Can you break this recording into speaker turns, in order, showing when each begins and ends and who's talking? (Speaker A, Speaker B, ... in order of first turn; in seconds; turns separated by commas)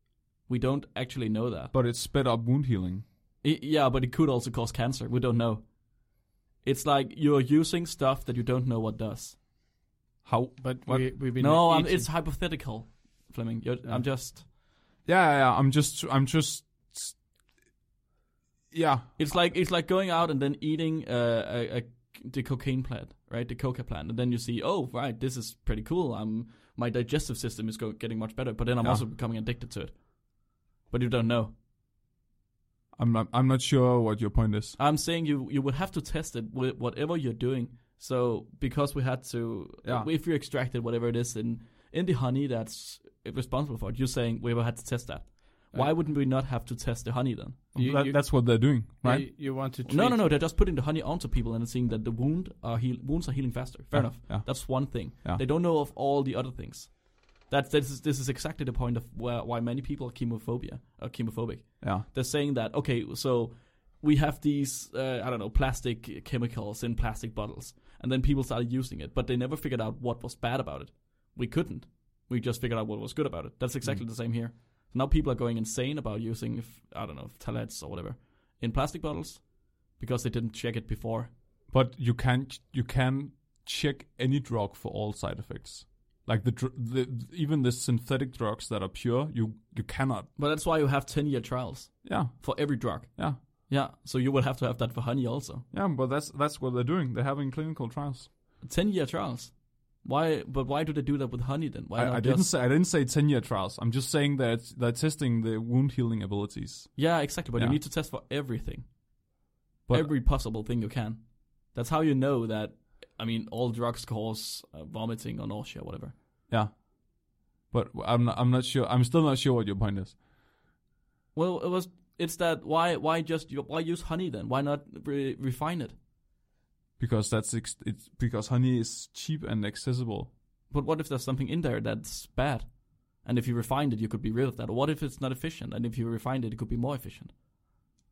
Speaker A: 0.5-1.7, Speaker B: 1.7-3.0, Speaker A: 3.4-9.4, Speaker B: 10.2-11.2, Speaker C: 10.6-12.1, Speaker A: 11.3-14.4, Speaker B: 15.0-17.2, Speaker B: 18.7-19.1, Speaker A: 19.2-31.5, Speaker B: 32.9-34.8, Speaker A: 34.8-47.6, Speaker B: 39.8-40.1, Speaker B: 47.7-49.3, Speaker C: 47.8-50.3, Speaker A: 49.8-81.3, Speaker B: 53.9-55.4, Speaker B: 61.8-62.0, Speaker B: 81.7-90.3, Speaker A: 90.4-95.6, Speaker B: 92.0-93.4, Speaker B: 95.7-98.3, Speaker A: 98.6-102.5, Speaker B: 101.9-107.8, Speaker A: 107.0-109.4, Speaker B: 109.9-110.1, Speaker A: 109.9-116.1, Speaker B: 116.5-120.2, Speaker A: 121.3-126.0, Speaker B: 127.0-130.3, Speaker A: 130.7-137.3